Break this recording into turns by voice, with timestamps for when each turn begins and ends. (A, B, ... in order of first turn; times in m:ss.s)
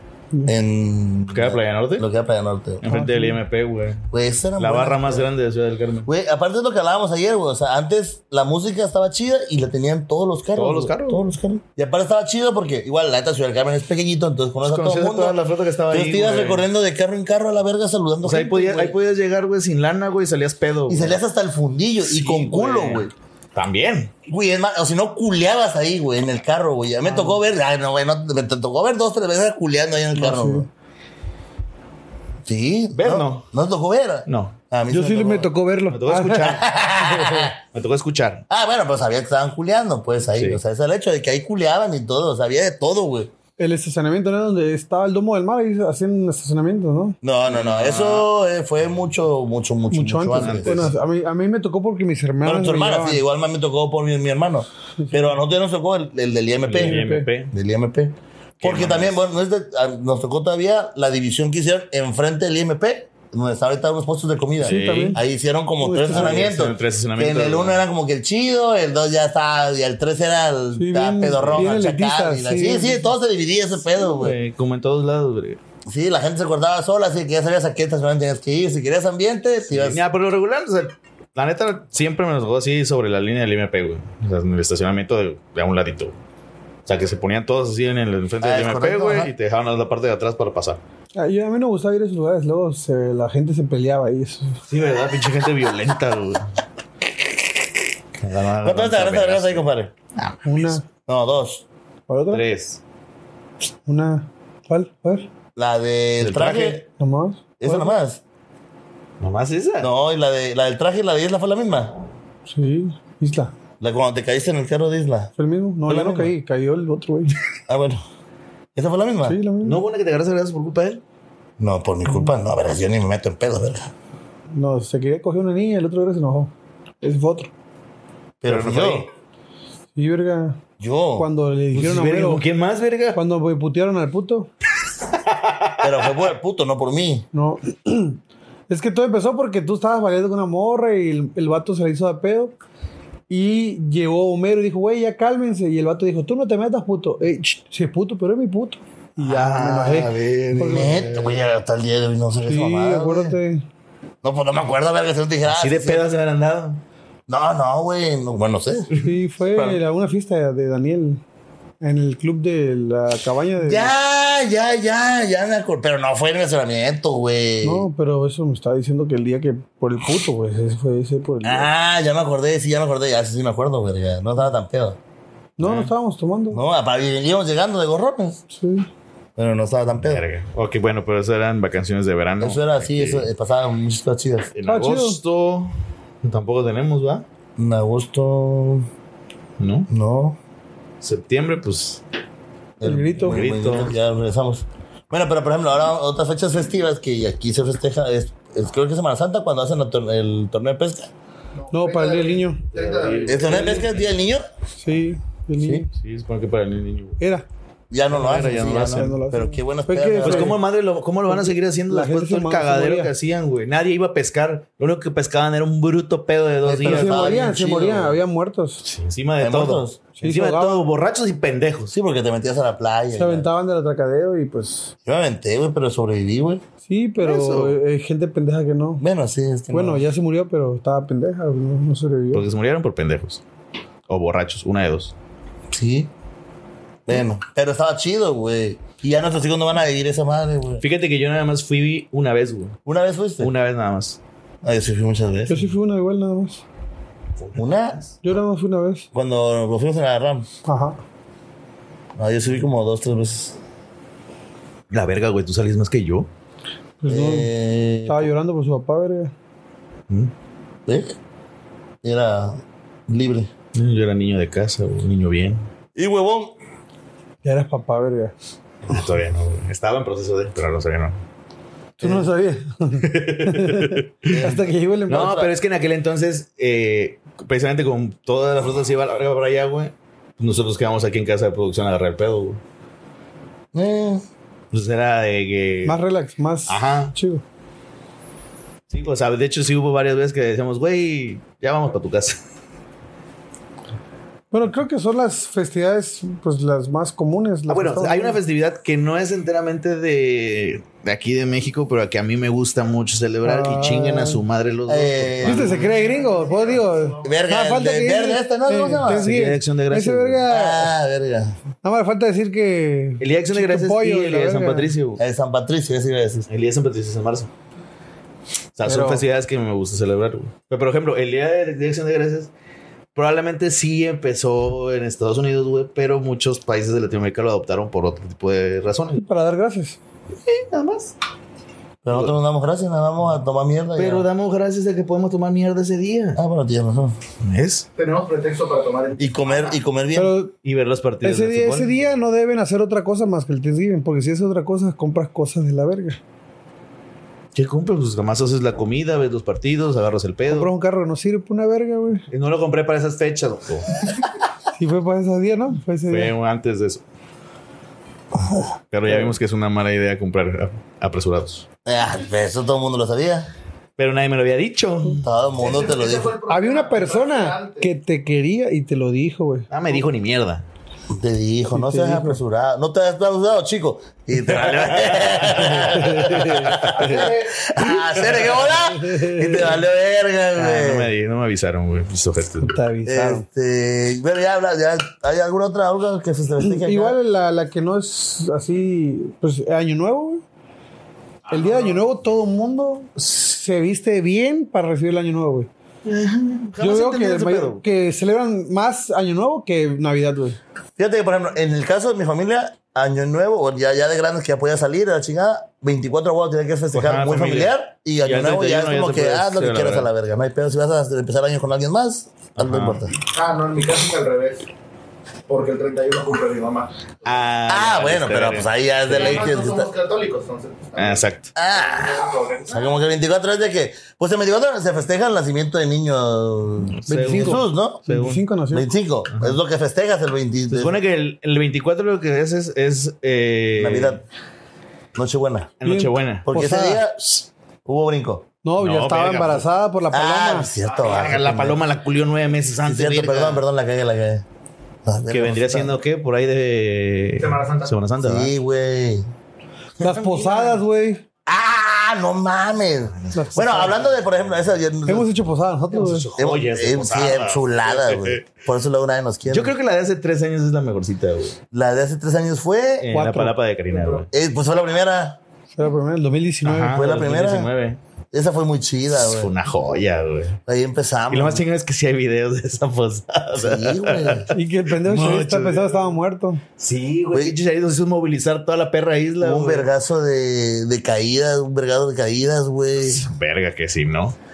0:00.5-0:02.8 A
0:01.3-0:02.0 B
0:02.8-0:06.1 B
0:02.9-0:03.4 C
0:04.1-0:05.3 A
0:06.0-0:15.4 A
0:10.6-0:11.2 B
0:14.6-0:16.6 B
0:15.9-0:19.0 A
0:18.2-0:21.2 B
0:20.9-0:23.1 A
0:22.0-0:24.1 B
0:24.2-0:30.7 A
0:27.0-0:27.3 C
0:30.1-0:30.7 C
0:32.4-0:35.5 A
0:32.9-0:33.4 B
0:34.3-0:34.6 B
0:34.9-0:36.6 C
0:35.9-0:36.7 B
0:36.4-0:37.6 A
0:37.6-0:38.4 B
0:38.5-0:43.3 A
0:40.3-0:40.6 B
0:43.6-0:47.2 C
0:47.2-0:50.9 A
0:47.5-0:48.2 B
0:49.9-0:53.2 C
0:50.3-0:50.9 B
0:52.4-1:14.3 A
0:55.0-0:55.3 C
0:56.6-0:57.5 B
0:56.8-0:57.3 C
0:58.6-0:59.1 B
1:04.6-1:05.2 B
1:04.6-1:05.2 C
1:05.8-1:06.4 C
1:06.1-1:07.8 B
1:10.7-1:13.0 C
1:11.4-1:11.7 B
1:14.0-1:15.6 B
1:15.9-1:20.0 A
1:19.7-1:26.1 B
1:26.8-1:30.8 B
1:28.4-1:29.3 A
1:31.2-1:34.6 C
1:34.7-1:36.5 B
1:38.2-1:40.8 B
1:38.6-1:39.9 A
1:40.4-1:40.8 C
1:41.1-1:41.6 A
1:42.1-1:42.4 C
1:42.3-1:42.8 B
1:43.8-1:45.2 C
1:45.6-1:46.8 A
1:46.2-1:46.8 B
1:47.0-1:47.9 C
1:47.6-1:48.2 A
1:49.2-1:49.9 B
1:49.8-1:51.9 A
1:52.5-1:53.5 C
1:53.8-1:55.3 A
1:55.4-1:57.3 C
1:55.9-1:56.3 A
1:57.7-1:58.0 A
1:58.7-1:59.4 A
1:59.2-1:59.8 C
1:59.6-2:01.0 B
2:01.6-2:03.9 A
2:04.5-2:07.5 C
2:08.4-2:09.1 A
2:08.4-2:09.1 B
2:10.0-2:10.6 C
2:10.8-2:11.3 A
2:11.2-2:12.4 C
2:11.7-2:13.2 B
2:13.1-2:14.5 C
2:15.2-2:16.1 B
2:15.8-2:17.2 A
2:17.3-2:22.5 C
2:23.3-2:31.0 C
2:29.3-2:31.4 B
2:29.5-2:33.4 A
2:32.4-2:33.6 C
2:34.2-2:36.0 A
2:35.4-2:36.8 B
2:37.3-2:38.9 A
2:38.9-2:39.7 B
2:39.0-2:41.2 C
2:41.8-2:43.9 C
2:43.6-2:47.8 A
2:47.6-2:51.7 C
2:51.4-2:55.0 A
2:55.6-2:56.6 C
2:55.6-2:55.9 B
2:56.5-2:58.4 A
2:58.5-2:58.9 C
2:59.4-3:00.2 A
3:00.0-3:03.3 B
3:02.4-3:04.5 A
3:04.5-3:05.7 B
3:04.6-3:05.2 C
3:06.2-3:07.2 B
3:07.6-3:08.9 A
3:09.6-3:09.9 B
3:09.9-3:10.4 A
3:11.0-3:12.0 B
3:12.8-3:21.1 A
3:12.8-3:13.4 C
3:13.2-3:13.9 B
3:21.5-3:23.9 D
3:21.7-3:22.6 C
3:22.7-3:24.1 B
3:23.2-3:24.4 A
3:24.8-3:25.9 C
3:25.6-3:25.8 A
3:25.9-3:27.2 B
3:27.2-3:27.5 C
3:27.9-3:30.6 A
3:28.1-3:29.1 B
3:28.8-3:30.6 C
3:30.2-3:37.4 B
3:31.3-3:33.1 C
3:36.6-3:38.2 A
3:36.8-3:38.8 C
3:38.8-3:41.9 B
3:39.4-3:40.0 A
3:40.2-3:40.8 C
3:41.9-3:43.5 A
3:43.1-3:44.9 C
3:45.0-3:46.6 A
3:46.8-3:49.0 C
3:47.2-3:47.8 B
3:49.0-3:50.0 A
3:49.7-3:52.4 C
3:52.3-3:53.4 B
3:54.1-3:55.1 B
3:55.7-3:56.1 A
3:57.1-4:00.8 A
4:00.8-4:02.8 B
4:02.8-4:03.5 A
4:03.4-4:04.2 B
4:04.6-4:05.7 A
4:05.5-4:06.6 C
4:07.4-4:08.1 B
4:07.6-4:08.0 A
4:08.2-4:09.1 C
4:09.1-4:10.5 A
4:10.6-4:11.0 C
4:12.2-4:13.6 A
4:14.9-4:16.3 B
4:17.0-4:17.5 C
4:17.1-4:18.3 A
4:18.0-4:19.3 C
4:20.9-4:21.1 A
4:22.0-4:23.5 A
4:23.7-4:25.6 B
4:25.9-4:26.5 A
4:27.4-4:28.3 C
4:28.9-4:31.2 B
4:32.0-4:35.4 C
4:32.0-4:32.3 A
4:33.0-4:34.3 B
4:34.3-4:35.5 A
4:35.1-4:42.6 B
4:43.7-4:44.2 A
4:44.7-4:46.0 B
4:45.8-4:47.4 C
4:46.7-4:47.1 B
4:48.9-4:52.4 B
4:54.5-4:58.4 C
4:57.7-5:05.9 B
5:03.4-5:04.4 C
5:04.9-5:05.8 A
5:05.4-5:10.9 C
5:05.6-5:07.4 D
5:07.2-5:09.3 A
5:09.0-5:10.4 B
5:10.5-5:11.6 A
5:11.8-5:14.9 C
5:13.2-5:15.2 B
5:15.2-5:16.5 A
5:16.5-5:17.5 B
5:18.8-5:22.5 B
5:18.8-5:19.2 C
5:23.1-5:29.2 B
5:29.2-5:30.0 C
5:30.4-5:31.1 B
5:32.0-5:34.3 A
5:32.1-5:32.3 B
5:34.0-5:36.4 B
5:36.3-5:37.2 A
5:37.4-5:37.9 B
5:38.0-5:39.8 D
5:39.2-5:40.3 A
5:40.1-5:40.5 C
5:40.6-5:41.9 B
5:41.2-5:46.2 C
5:47.5-5:50.7 B
5:50.5-5:52.2 C
5:52.3-5:53.9 B
5:54.8-5:56.3 C
5:56.1-5:57.0 B
5:58.9-6:01.6 B
6:01.8-6:03.5 A
6:04.0-6:05.2 B
6:05.2-6:06.3 A
6:05.6-6:07.9 D
6:06.5-6:09.7 C
6:09.7-6:10.6 B
6:11.1-6:21.1 A
6:11.7-6:12.4 C
6:14.5-6:17.3 B
6:15.7-6:16.6 C
6:17.0-6:18.2 D
6:18.2-6:18.6 B
6:19.0-6:19.6 C
6:20.6-6:22.8 B
6:22.6-6:23.4 C
6:23.0-6:27.2 A
6:26.6-6:30.4 C
6:31.5-6:32.0 D
6:31.5-6:35.7 C
6:36.0-6:37.8 B
6:36.8-6:40.6 C
6:41.0-6:53.1 A
6:46.9-6:47.7 B
6:48.2-6:50.1 B
6:52.6-6:53.1 B
6:53.2-6:54.7 D
6:55.5-6:56.9 D
6:57.2-6:59.5 B
6:57.7-6:59.9 A
6:59.1-7:02.9 D
7:01.0-7:01.5 B
7:01.6-7:11.0 A
7:06.8-7:08.4 B
7:07.1-7:08.9 C
7:10.7-7:14.2 B
7:13.8-7:14.2 A
7:15.1-7:15.8 A
7:15.8-7:16.5 B
7:15.8-7:17.0 C
7:16.4-7:18.4 A
7:18.6-7:20.7 C
7:18.8-7:19.6 B
7:20.1-7:21.8 A
7:20.8-7:21.4 D
7:21.0-7:23.6 B
7:22.8-7:24.4 A
7:25.0-7:26.0 A
7:25.3-7:28.5 B
7:27.4-7:28.0 D
7:28.2-7:29.2 A
7:30.0-7:30.8 B
7:30.0-7:31.2 C
7:31.4-7:35.3 A
7:33.2-7:34.4 B
7:33.3-7:34.0 C
7:35.0-7:36.2 C
7:35.9-7:38.4 B
7:36.4-7:39.7 A
7:39.5-7:41.6 B
7:41.7-7:43.1 A
7:43.0-7:44.3 B
7:43.1-7:43.6 C
7:43.9-7:44.2 D
7:44.3-7:45.4 A
7:45.7-7:47.0 C
7:46.6-7:48.0 B
7:46.9-7:47.7 A
7:48.3-7:49.5 A
7:49.1-7:50.6 B
7:50.7-7:51.6 A
7:51.3-7:56.1 B
7:53.5-7:54.5 A
7:54.5-7:56.6 C
7:56.8-7:59.9 B
7:59.4-8:03.2 A
8:03.0-8:04.4 B